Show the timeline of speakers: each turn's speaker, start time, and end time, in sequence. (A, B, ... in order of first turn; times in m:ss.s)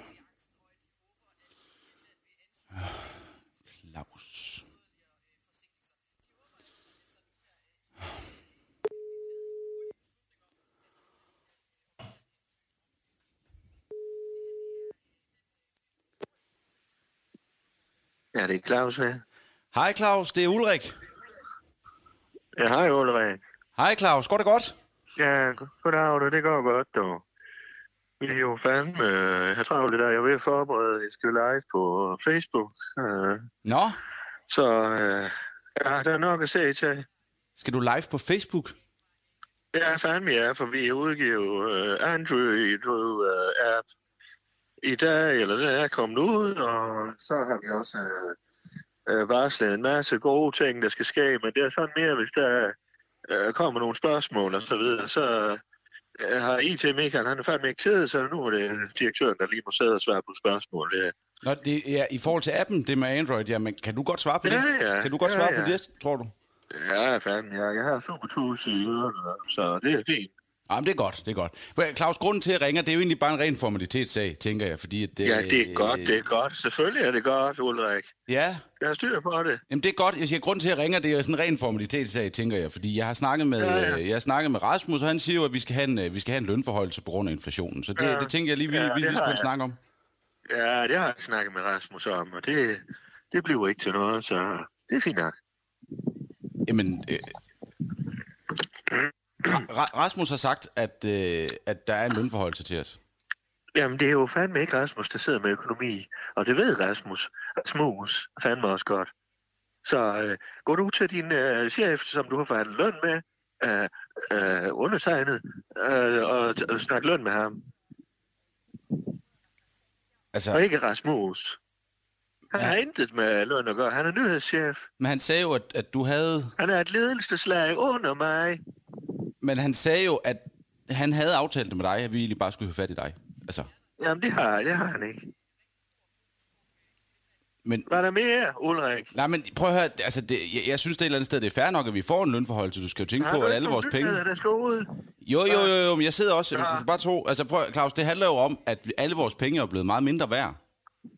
0:02.7-0:04.6 A
0:18.3-0:19.2 B
0:19.7-0:21.0 A
0:22.6-0:23.4 B
0:23.8-0:24.7 A
0:25.2-0:27.2 B
0:28.2-0:33.5 B
0:33.6-0:34.0 A
0:34.5-0:37.0 B
0:37.6-0:38.8 A
0:39.7-0:43.8 B
0:44.8-0:48.4 B
0:49.1-0:52.8 B
0:53.3-0:55.6 B
0:56.2-1:01.1 B
1:01.4-1:06.3 A
1:04.4-1:05.8 B
1:06.7-1:10.3 B
1:10.7-1:16.2 A
1:15.2-1:18.1 B
1:18.3-1:18.6 A
1:18.8-1:19.6 B
1:19.7-1:29.8 A
1:23.6-1:24.0 B
1:28.0-1:29.5 B
1:30.5-1:35.3 B
1:36.6-1:37.3 A
1:39.4-1:43.0 A
1:43.7-1:49.1 B
1:49.8-1:57.6 B
2:00.3-2:00.6 A
2:00.5-2:01.6 B
2:02.5-2:02.8 A
2:02.5-2:04.9 B
2:05.0-2:06.5 A
2:06.6-2:08.6 B
2:09.4-2:13.7 A
2:14.0-2:15.3 B
2:17.6-2:18.0 A
2:17.9-2:19.1 B
2:19.1-2:24.2 A
2:23.2-2:24.9 B
2:25.2-2:30.6 A
2:25.5-2:25.7 B
2:26.5-2:26.8 B